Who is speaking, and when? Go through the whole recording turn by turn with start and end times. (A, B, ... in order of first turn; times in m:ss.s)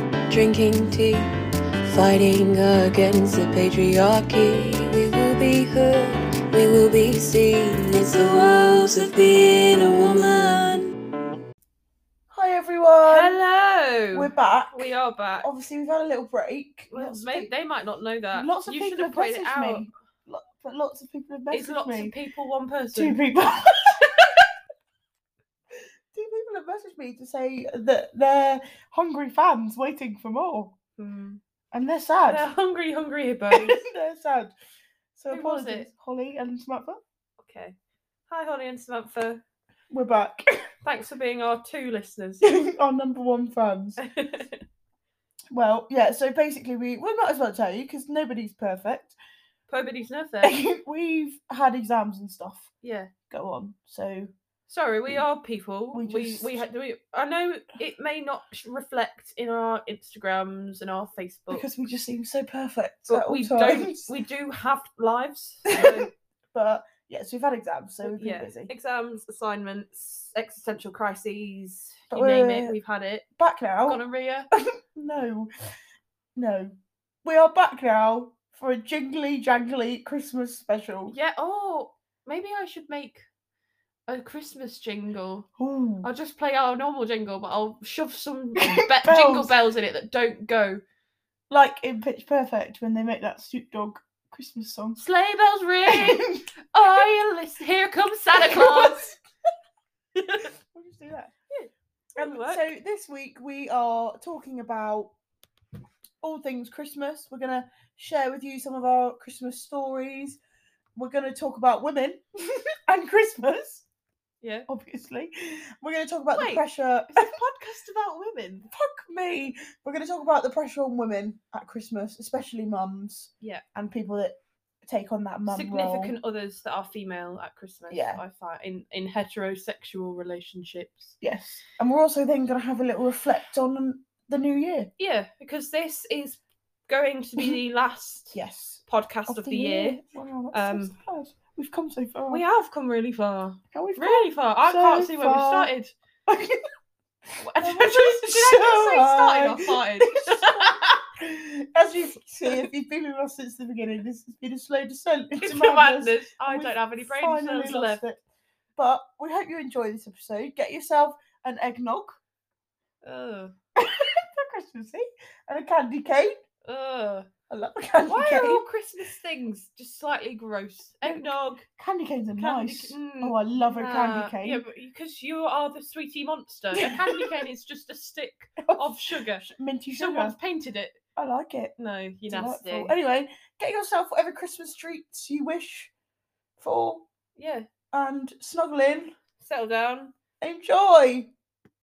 0:00.3-0:01.2 A
0:01.9-0:10.9 A
0:12.3-0:13.4 B
0:13.0-0:15.5 C
0:14.1-0:14.9 B
0:15.4-0:17.5 B
0:16.9-0:19.9 C
0:18.3-0:22.1 B
0:21.5-0:23.2 C
0:23.0-0:24.4 B
0:26.1-0:30.8 B
0:31.0-0:31.4 C
0:31.7-0:32.5 B
0:32.3-0:33.8 C
0:33.5-0:34.5 B
0:35.2-0:37.0 B
0:35.3-0:35.9 C
0:37.4-0:37.8 C
0:38.3-0:39.4 C
0:39.9-0:40.6 B
0:40.8-0:42.5 C
0:42.4-0:44.0 B
0:44.0-0:44.6 C
0:45.5-0:49.2 B
0:49.7-0:50.6 C
0:50.4-0:52.7 B
0:52.8-0:53.1 C
0:53.3-0:54.3 B
0:54.7-1:01.7 C
0:55.9-0:56.6 B
1:01.5-1:04.1 B
1:03.1-1:06.1 C
1:05.7-1:08.7 B
1:08.0-1:13.3 C
1:12.1-1:12.8 B
1:13.4-1:14.0 B
1:13.9-1:14.5 C
1:14.5-1:15.5 B
1:16.4-1:21.1 B
1:21.1-1:23.3 C
1:24.1-1:25.5 C
1:25.6-1:26.1 B
1:26.0-1:30.8 C
1:28.8-1:29.5 B
1:31.5-1:35.0 B
1:35.0-1:39.0 C
1:35.9-1:36.4 B
1:38.3-1:39.2 B
1:40.3-1:41.3 B
1:41.5-1:42.6 C
1:42.2-1:45.1 B
1:46.2-1:50.4 B
1:51.0-1:53.9 B
1:54.4-1:54.7 C
1:54.7-1:57.3 B
1:56.3-1:58.7 C
1:58.7-2:06.2 B
2:05.5-2:11.2 C
2:07.9-2:08.2 B
2:11.2-2:14.9 B
2:15.0-2:20.0 C
2:18.3-2:22.4 B
2:20.5-2:20.9 C
2:22.3-2:25.9 C
2:23.7-2:25.7 B
2:26.3-2:26.6 B
2:27.4-2:31.0 C
2:27.6-2:38.2 B
2:35.4-2:38.0 C
2:38.8-2:42.2 B
2:43.0-2:43.6 C
2:43.8-2:46.3 B
2:46.7-2:47.3 C
2:47.5-2:48.7 B
2:48.1-2:51.6 C
2:51.0-2:54.6 B
2:52.4-2:59.4 C
2:56.7-2:57.3 B
2:58.6-3:00.3 B
3:00.0-3:01.0 C
3:01.2-3:01.7 B
3:01.8-3:02.9 C
3:02.3-3:05.9 B
3:06.6-3:07.1 B
3:07.4-3:07.7 C
3:07.9-3:09.1 B
3:09.4-3:10.1 C
3:10.4-3:11.3 B